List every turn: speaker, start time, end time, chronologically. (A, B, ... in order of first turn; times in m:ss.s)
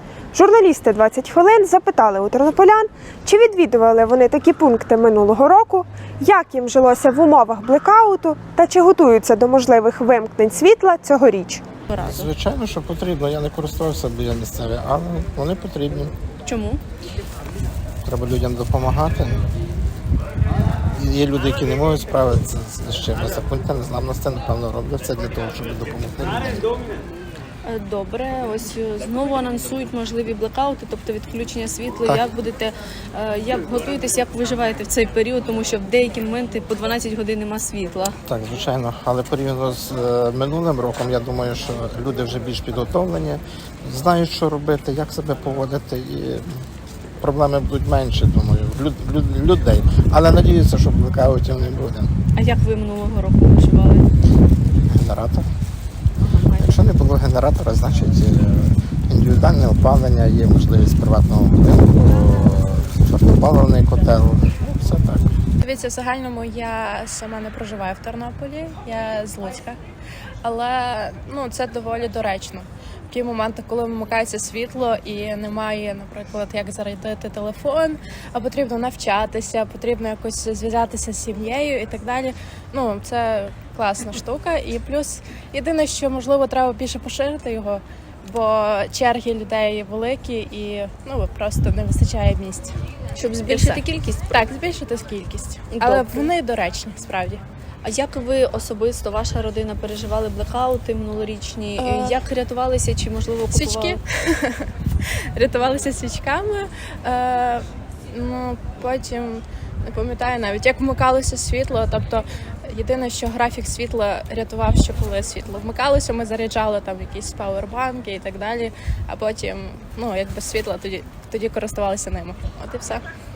0:00.3-0:11.6 A
0:11.9-0:12.3 B
0:12.0-0:16.1 C
0:16.4-0:16.8 B
0:18.0-0:19.4 C
0:21.0-0:26.7 C
0:27.6-0:38.2 B
0:38.3-0:46.6 C
0:47.2-0:52.1 C
0:52.4-0:54.1 B
0:54.8-0:55.5 C
0:56.2-0:56.8 B
0:56.6-1:05.3 C
1:05.6-1:09.8 D
1:10.4-1:32.8 D
1:33.2-1:34.4 B
1:33.5-1:37.4 D
1:35.7-1:36.3 B
1:37.8-1:44.0 B
1:41.8-1:42.2 D
1:43.5-2:03.0 D